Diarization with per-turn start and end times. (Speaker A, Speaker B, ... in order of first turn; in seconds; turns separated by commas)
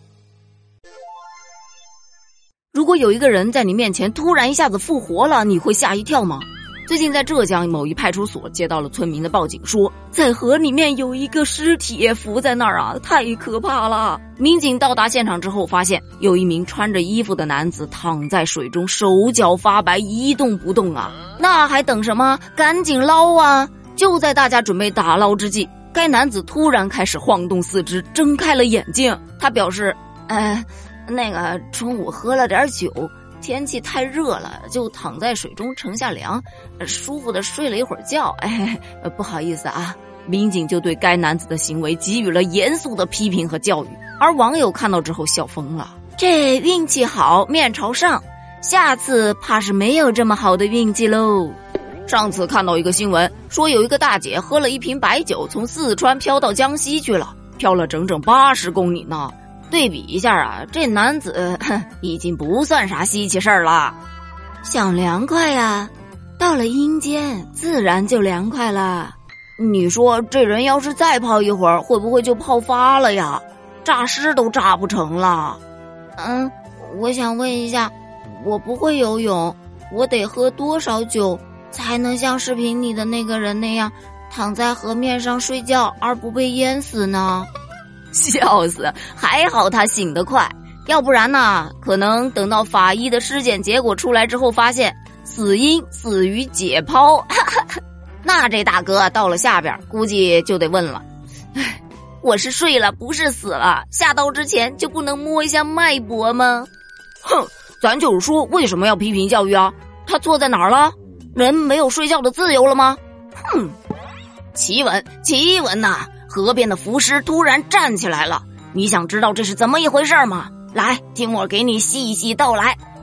Speaker A: 2.7-64.0, Speaker A: 64.6-75.6, Speaker A: 76.2-87.5, Speaker A: 88.1-101.0, Speaker A: 101.5-106.7, Speaker A: 107.2-113.7, Speaker A: 114.5-122.8